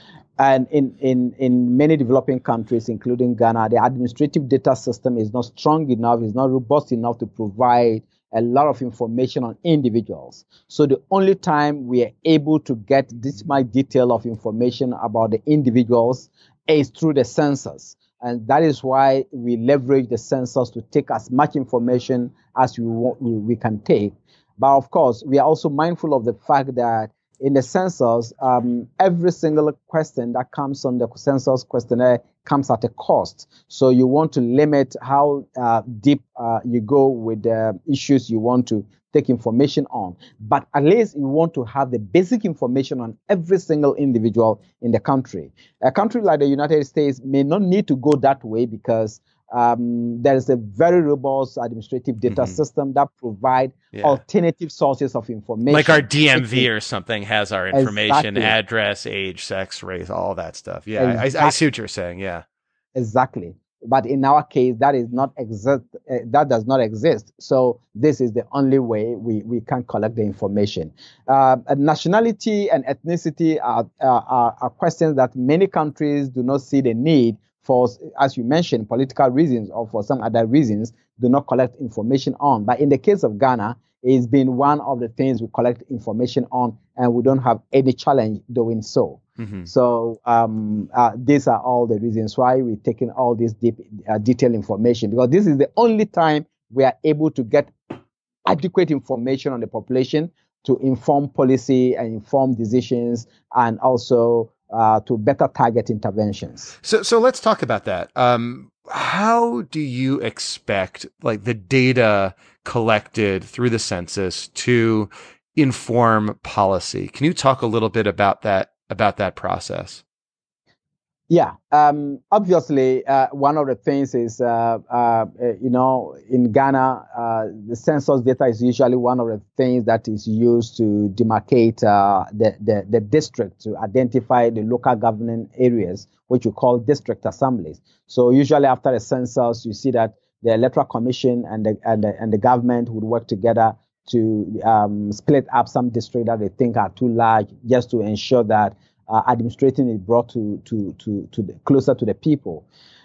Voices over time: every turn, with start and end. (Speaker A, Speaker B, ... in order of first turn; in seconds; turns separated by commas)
Speaker A: 0.4-56.7, Speaker B: 53.9-54.2, Speaker B: 55.7-62.4, Speaker A: 57.7-58.5, Speaker A: 61.0-61.5, Speaker A: 62.9-97.7, Speaker B: 89.4-89.7, Speaker A: 98.5-106.7, Speaker B: 106.8-120.0, Speaker A: 121.3-152.6